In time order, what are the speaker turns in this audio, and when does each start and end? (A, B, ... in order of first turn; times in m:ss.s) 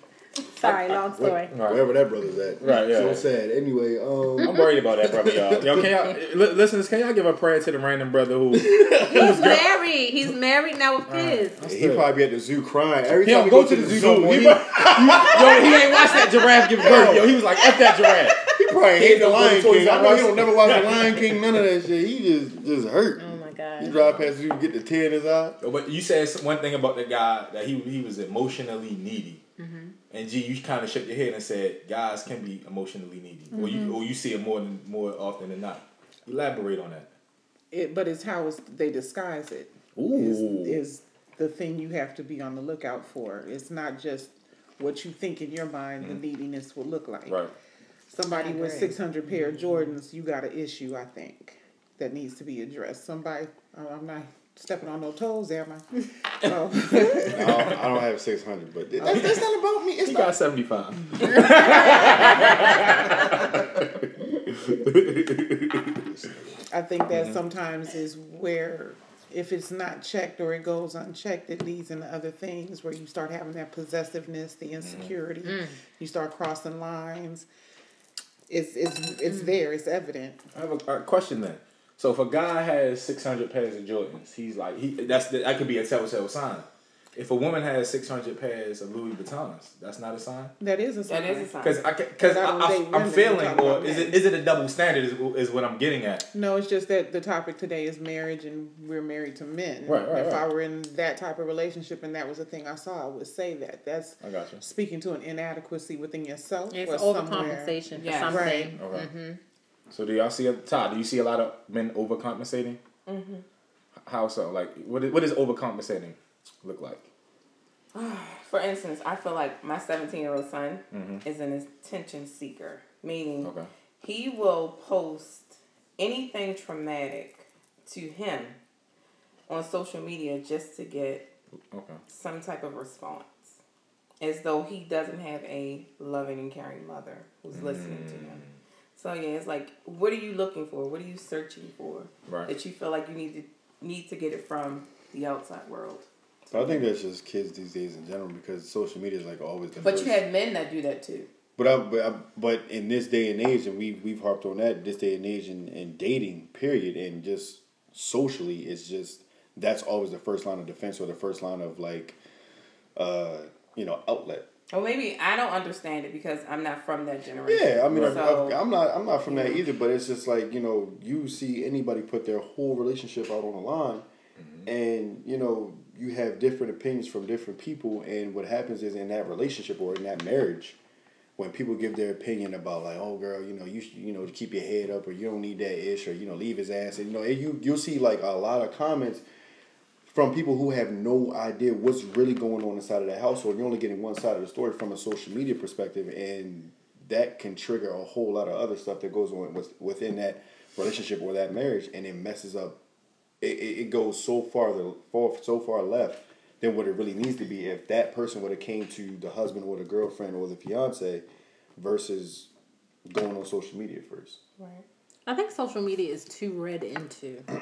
0:00.6-0:01.5 A
0:00.6-0:05.9 B
0:01.5-0:01.8 C
0:02.6-0:03.2 C
0:04.4-0:09.6 C
0:08.5-0:09.4 B
0:09.0-0:11.6 A
0:11.1-0:12.0 C
0:11.6-0:15.8 B
0:13.2-0:21.6 C
0:15.3-0:18.4 A
0:16.8-0:17.4 B
0:18.6-0:25.6 B
0:23.2-0:24.0 A
0:23.9-0:24.2 C
0:25.6-0:29.4 C
0:29.6-0:29.9 A
0:30.1-0:37.1 C
0:33.6-0:33.9 D
0:37.7-0:47.4 D
0:40.0-0:40.8 C
0:47.3-0:47.5 C
0:48.1-0:57.8 D
0:48.3-0:49.0 A
0:57.3-0:57.8 C
0:57.3-1:00.3 B
0:59.0-0:59.4 D
1:00.0-1:06.0 C
1:01.9-1:02.8 B
1:05.9-1:06.6 B
1:06.7-1:17.4 D
1:07.1-1:07.4 C
1:14.8-1:15.1 C
1:15.4-1:15.8 A
1:18.5-1:20.4 D
1:20.6-1:30.5 C
1:30.6-1:31.6 D
1:31.1-1:31.8 E
1:31.6-1:36.2 C
1:32.2-1:34.2 D
1:36.3-1:48.7 D
1:39.8-1:40.4 C
1:44.2-1:44.6 C
1:46.7-1:49.4 A
1:48.0-1:48.5 E
1:48.8-1:49.1 C
1:49.9-1:52.8 C
1:53.1-1:53.4 E
1:54.1-1:57.1 C
1:57.9-2:08.6 E
2:00.9-2:01.2 C
2:03.4-2:03.7 C
2:09.5-2:11.3 E
2:11.7-2:12.0 C
2:12.1-2:13.6 E
2:14.2-2:18.4 E
2:17.5-2:18.5 C
2:19.0-2:26.1 E
2:26.5-2:30.2 B
2:29.8-2:31.3 E
2:31.6-2:42.2 B
2:43.0-2:44.5 B
2:44.7-2:48.6 E
2:47.5-2:54.1 B
2:47.9-2:48.3 C
2:49.3-2:49.6 E
2:54.4-2:54.7 C
2:54.6-3:00.8 B
3:01.4-3:09.2 B
3:10.0-3:22.8 B
3:23.4-3:31.2 B
3:31.8-3:32.5 B
3:33.1-3:34.4 B
3:34.6-3:34.8 E
3:35.3-3:37.5 A